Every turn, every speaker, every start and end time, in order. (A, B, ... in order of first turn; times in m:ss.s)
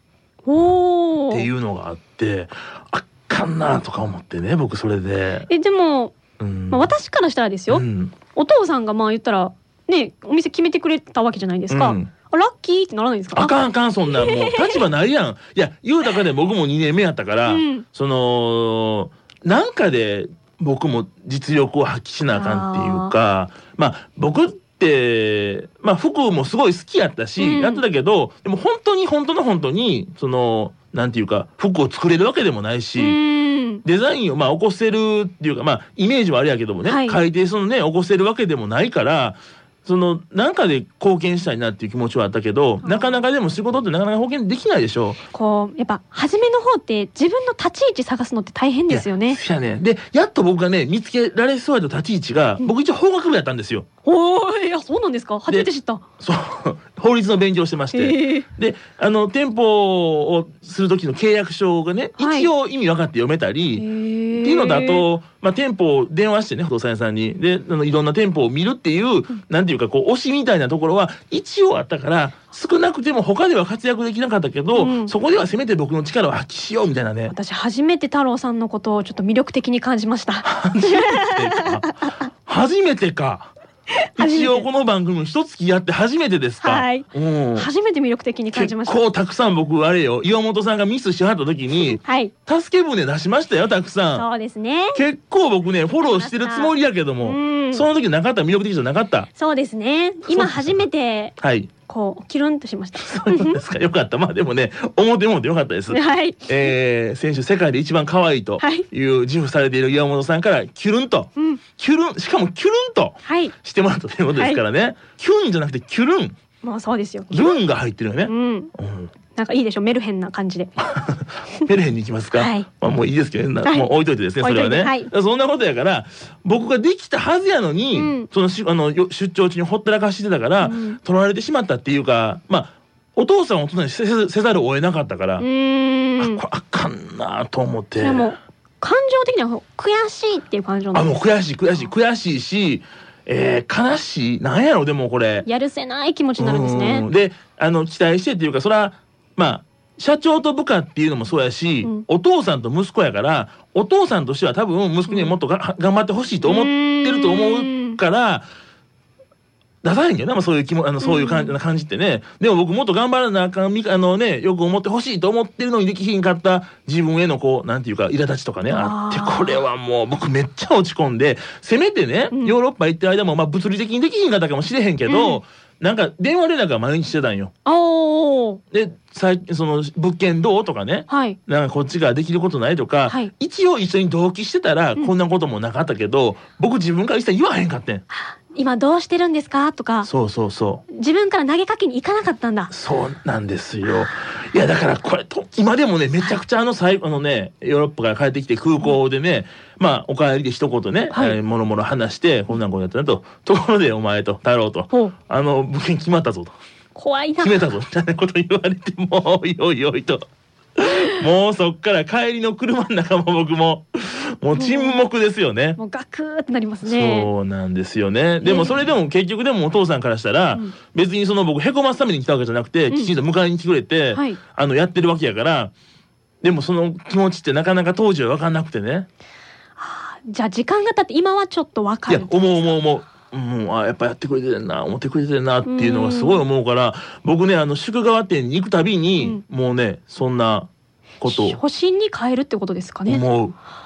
0:00.4-0:01.5 A
0:01.3-0:05.5 B
0:05.5-0:06.2 A
0:06.4-0:06.9 B
0:06.7-0:13.5 A
0:07.7-0:08.2 B
0:11.7-0:12.1 B
0:13.3-0:33.2 B
0:14.1-0:14.9 A
0:17.4-0:17.8 A
0:22.3-0:23.1 A
0:27.4-0:27.8 A
0:33.0-0:33.8 A
0:33.8-0:45.2 B
0:36.8-0:37.2 A
0:42.8-0:43.2 A
0:45.3-0:49.4 A
0:48.9-0:53.8 B
0:54.0-0:56.0 A
0:56.2-1:03.8 B
0:57.9-0:58.4 A
1:02.2-1:02.5 A
1:03.8-1:05.1 A
1:04.4-1:17.3 B
1:14.7-1:15.1 A
1:17.3-1:22.1 A
1:20.4-1:23.5 B
1:24.1-1:24.7 A
1:24.2-1:27.7 B
1:26.6-1:29.0 A
1:28.5-1:34.2 B
1:31.8-1:32.3 A
1:34.1-1:35.0 A
1:34.9-1:39.3 B
1:36.0-1:37.8 A
1:39.4-1:41.4 A
1:40.3-1:40.8 B
1:41.4-1:41.7 B
1:41.9-1:43.6 A
1:43.0-1:56.4 B
1:45.9-1:46.7 A
1:48.6-1:48.8 A
1:51.4-1:51.6 A
1:53.2-1:53.5 A
1:54.3-1:54.6 A
1:56.6-1:57.6 A
1:57.3-1:59.1 B
1:58.2-1:58.7 A
1:59.4-2:00.7 A
2:00.8-2:15.4 B
2:02.3-2:02.7 A
2:03.6-2:05.1 A
2:07.9-2:08.3 A
2:10.6-2:11.0 A
2:15.4-2:16.4 A
2:16.2-2:18.3 B
2:18.0-2:21.2 A
2:20.9-2:25.5 B
2:25.4-2:27.1 A
2:26.4-2:38.4 B
2:35.1-2:35.4 A
2:36.4-2:38.0 A
2:39.8-2:57.5 B
2:41.0-2:41.6 A
2:48.7-2:49.6 A
2:55.1-2:55.4 A
2:57.6-2:58.6 A
2:58.7-3:08.0 B
3:01.1-3:01.4 A
3:03.1-3:03.3 A
3:08.1-3:10.1 A
3:10.0-3:10.8 B
3:10.9-3:12.7 A
3:12.7-3:26.6 B
3:21.1-3:21.4 A
3:26.9-3:27.7 A
3:27.4-3:35.8 B
3:34.5-3:35.0 A
3:35.8-3:37.3 A
3:36.8-3:45.7 B
3:38.4-3:38.9 A
3:44.1-3:44.4 A
3:46.4-3:49.1 B
3:49.8-3:52.7 A
3:52.1-4:00.7 B
3:55.6-3:56.4 A
4:01.2-4:01.6 B
4:01.2-4:03.2 A
4:03.1-4:03.6 B